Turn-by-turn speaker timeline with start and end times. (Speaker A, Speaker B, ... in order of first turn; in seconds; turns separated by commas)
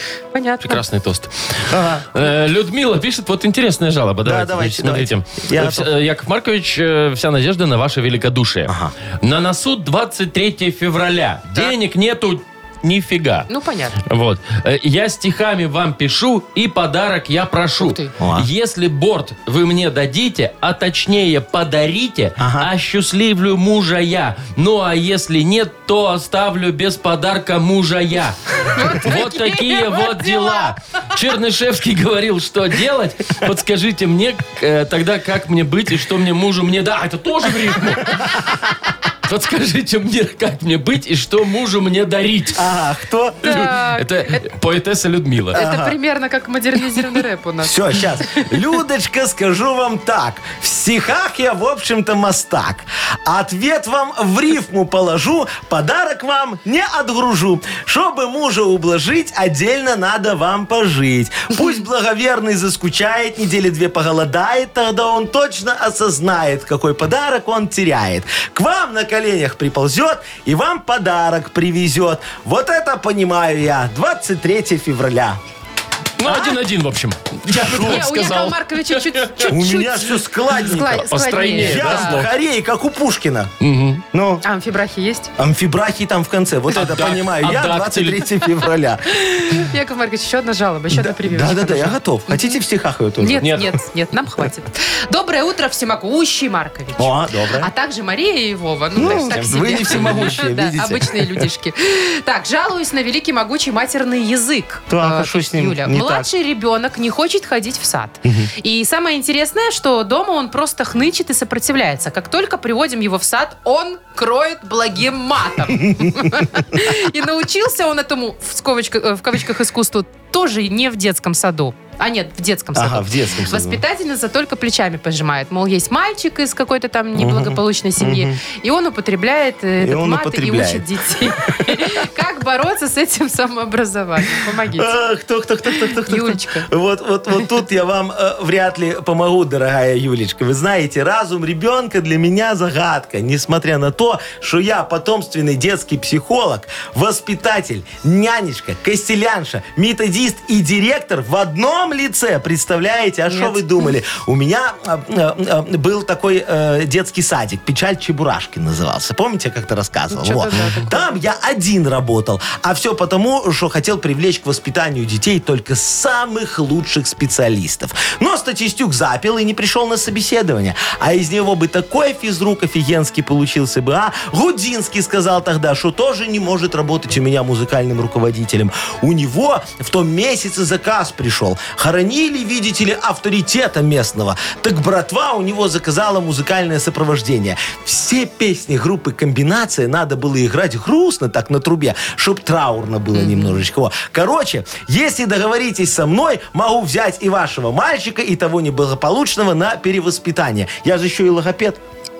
Speaker A: 0.3-0.8, Speaker B: 0.6-13.5, Speaker C: 1.7-2.1, Speaker C: 4.2-5.9, Speaker C: 8.7-8.9, Speaker A: 13.5-14.0, Speaker B: 14.0-38.6, Speaker A: 17.8-18.1, Speaker C: 18.2-18.5, Speaker C: 22.4-22.7, Speaker A: 28.7-30.7, Speaker B: 39.2-42.6, Speaker C: 42.5-43.4, Speaker A: 43.4-44.5, Speaker B: 43.4-45.6, Speaker C: 45.5-45.9, Speaker A: 45.5-48.5, Speaker C: 47.6-75.4, Speaker B: 76.2-79.5, Speaker A: 76.2-76.6, Speaker C: 77.5-78.1, Speaker A: 77.7-82.2, Speaker C: 79.5-83.5, Speaker B: 81.0-82.3, Speaker B: 83.6-84.0, Speaker C: 84.1-84.4, Speaker A: 84.4-85.3, Speaker C: 85.4-89.5, Speaker B: 86.7-88.3, Speaker A: 89.2-92.5, Speaker C: 90.9-93.6, Speaker A: 93.2-134.9, Speaker B: 93.4-93.7, Speaker C: 97.0-97.7, Speaker C: 98.9-101.5, Speaker C: 104.9-106.3, Speaker C: 108.2-108.5, Speaker C: 115.8-116.4, Speaker C: 122.7-123.8, Speaker C: 127.2-128.4, Speaker C: 129.8-131.9, Speaker C: 134.7-201.8, Speaker A: 135.7-136.7, Speaker A: 153.3-153.9, Speaker A: 160.1-161.1, Speaker A: 193.1-193.6